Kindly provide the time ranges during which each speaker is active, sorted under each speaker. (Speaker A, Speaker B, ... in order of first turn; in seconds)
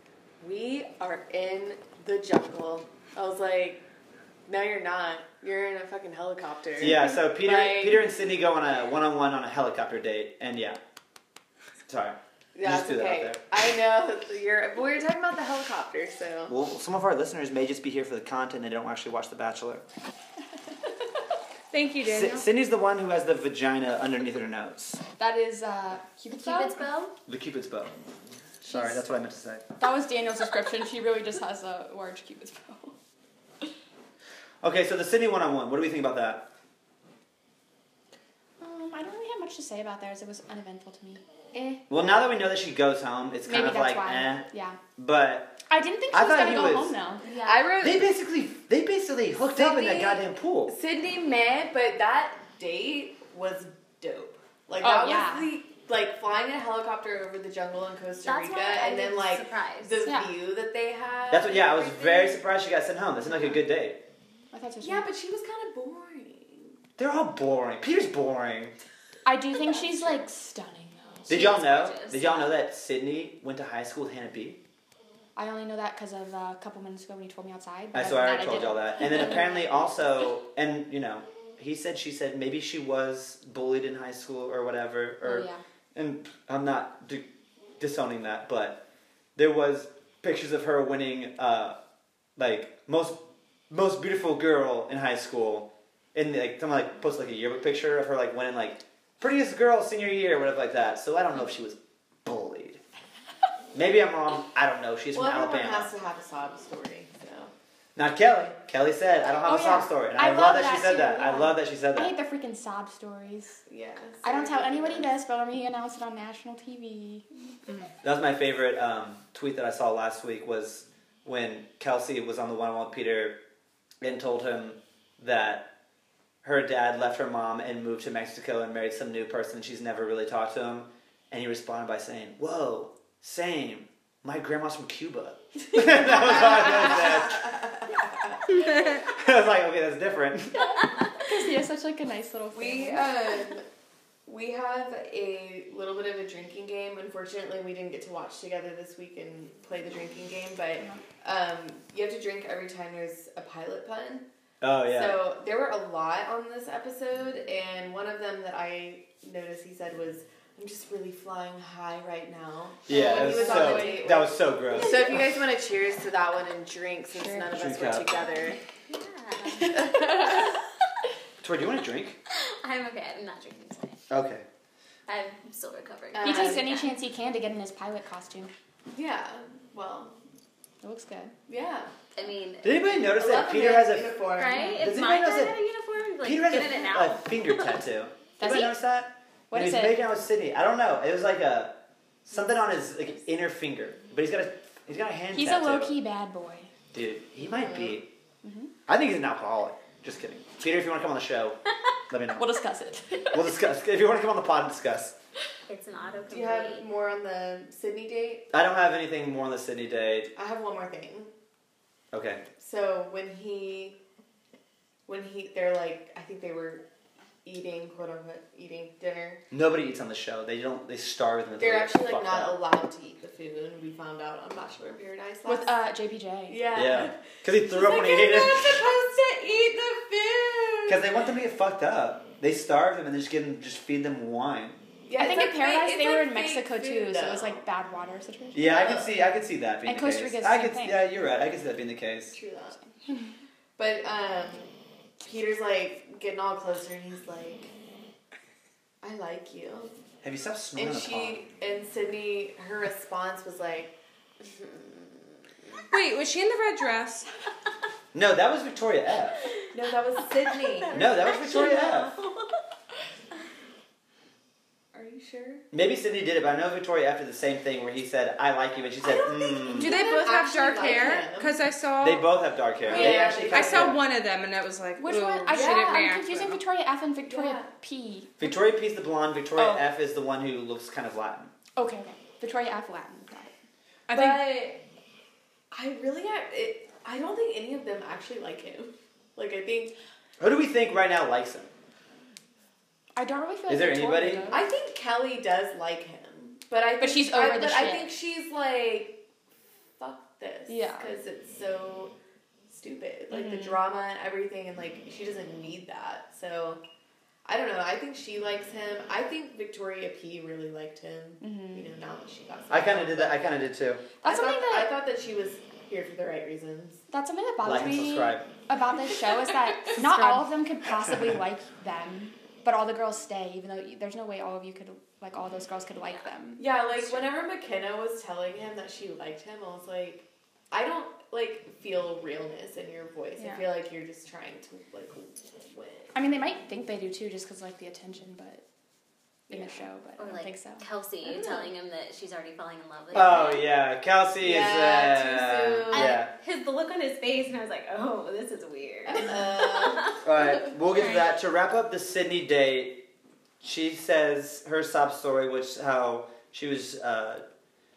Speaker A: 0.4-3.8, 4.5-8.1, 12.6-16.5, 41.5-41.8, 47.4-48.1, 49.5-62.4, 64.8-66.8, 69.6-70.2, 105.1-107.5, 113.7-115.1, 136.1-138.4, 142.5-143.7, 144.3-154.3, 154.9-168.6, 169.9-170.2, 176.1-176.7, 178.9-180.2, 181.5-181.9, 183.0-184.8, 197.5-198.0, 206.3-208.5, 210.3-211.3, 212.6-214.0, 215.1-216.8, 217.4-219.4, 221.6-225.8, 226.5-231.1, 235.1-237.6, 238.6-239.1, 242.3-242.8, 243.8-247.7, 249.0-249.9, 250.8-255.8, 259.7-261.3, 264.9-265.6, 269.2-271.6, 272.9-274.0, 275.5-276.1, 277.3-277.7, 284.1-284.8, 285.7-289.9, 294.5-299.2, 300.0-302.1, 302.7-306.8, 307.4-313.5, 314.2-317.0, 326.6-336.1, 339.5-339.8, 341.2-341.7, 344.4-346.2, 349.1-350.2
Speaker B: 6.8-10.8, 11.9-13.4, 16.5-19.9, 22.0-25.0, 27.3-27.9, 28.6-29.6, 34.6-36.5, 41.9-47.0, 47.8-50.8, 61.3-64.0, 67.0-68.8, 71.3-74.6, 77.9-87.2, 87.8-88.8, 89.4-91.8, 92.4-102.8, 103.7-105.9, 108.0-112.1, 118.0-123.4, 124.0-125.7, 126.4-137.6, 138.9-140.8, 154.6-155.2, 162.9-165.2, 167.5-168.2, 171.4-172.2, 174.1-174.4, 182.6-185.6, 186.2-195.9, 196.9-198.1, 198.9-201.6, 202.1-202.4, 203.3-205.2, 208.5-210.3, 212.1-212.4, 219.5-222.6, 226.7-228.9, 230.9-234.8, 238.5-242.4, 250.2-251.4, 258.1-259.4, 260.9-262.2, 265.7-270.0, 272.0-274.0, 278.4-281.5, 290.4-291.7, 293.7-294.5, 312.7-314.1, 317.6-318.5, 343.1-346.3, 350.2-353.0, 353.6-357.4
Speaker C: 21.7-22.5, 255.9-257.3, 269.7-272.3, 272.9-276.6
Speaker D: 25.2-26.9, 28.6-29.0, 29.8-33.0, 38.6-41.2, 43.5-44.8, 45.7-47.6, 54.8-55.5, 60.0-60.3, 64.5-65.1, 69.2-71.3, 75.4-79.5, 85.2-85.6, 109.5-113.6, 114.2-117.3, 141.2-143.2, 162.9-164.1, 167.2-167.5, 169.5-170.5, 176.2-178.5, 180.8-181.3, 188.4-188.8, 189.5-190.0, 195.3-196.7, 198.4-198.7, 202.3-203.4, 225.5-226.6, 235.2-238.6, 239.8-241.0, 275.0-278.6, 279.6-279.8, 281.8-283.5, 284.1-284.6, 293.2-294.6, 297.0-298.1, 300.7-301.1, 303.3-303.8, 311.4-311.9, 314.2-314.9, 317.1-327.3, 333.4-333.7, 336.1-338.6, 339.5-340.8
Speaker E: 26.3-27.1, 58.2-60.1, 71.3-72.6, 168.9-170.6, 172.3-174.0, 175.1-176.9, 182.2-182.7, 184.4-187.8, 205.7-206.9, 260.7-262.5, 269.2-269.4, 340.2-343.7, 345.9-351.3